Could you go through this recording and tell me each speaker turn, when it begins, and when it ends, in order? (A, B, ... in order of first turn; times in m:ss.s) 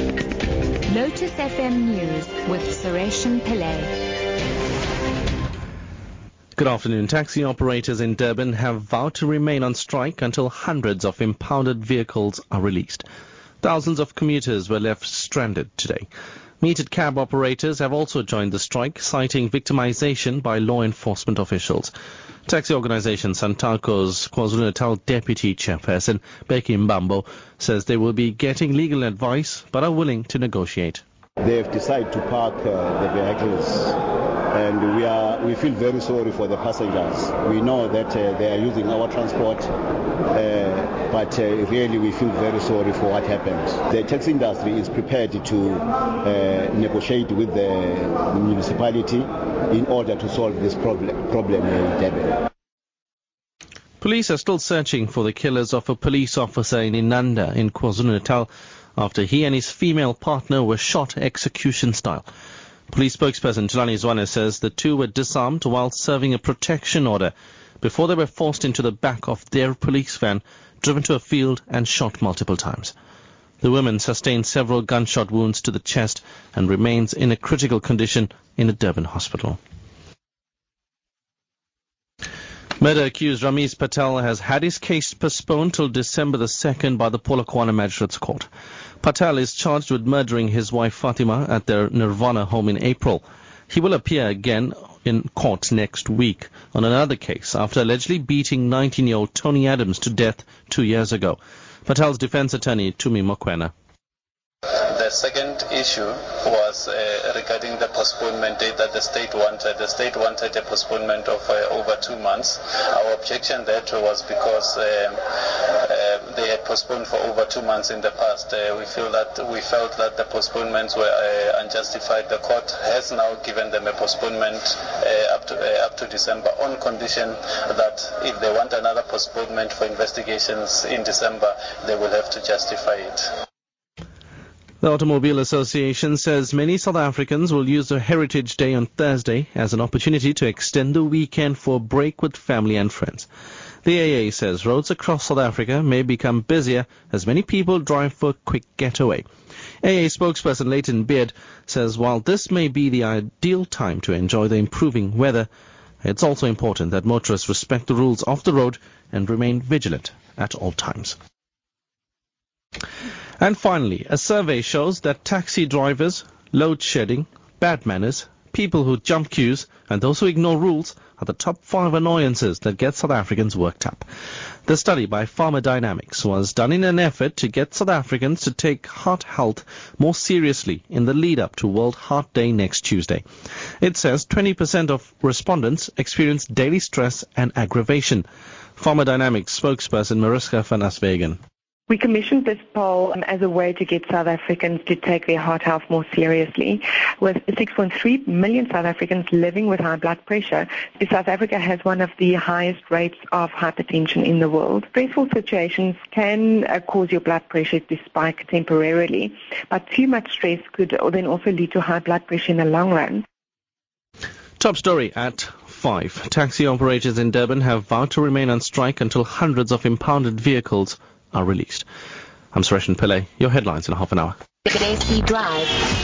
0:00.9-0:03.9 A
0:06.6-0:13.0 B
0:13.6-0:16.1 B
0:16.6-0:21.9 B
0:22.5-0:31.0 B
0:31.4-0:34.0 C
0:34.5-0:39.7 C
0:40.3-0:52.4 C
0:54.0-1:02.3 B
1:02.9-1:12.9 B
1:13.6-1:19.6 B
1:22.8-1:28.5 B
1:29.0-1:43.7 B
1:44.9-2:13.2 D
2:14.8-2:23.3 B
2:23.8-2:29.2 B
2:29.8-2:35.5 B
2:36.0-2:41.2 B
2:43.4-2:54.0 B
2:54.7-3:03.2 B
3:03.8-3:08.2 B
3:08.8-3:11.4 B
3:11.9-3:33.2 E
3:34.6-3:41.9 B
3:42.5-3:44.4 B
3:44.7-3:45.8 A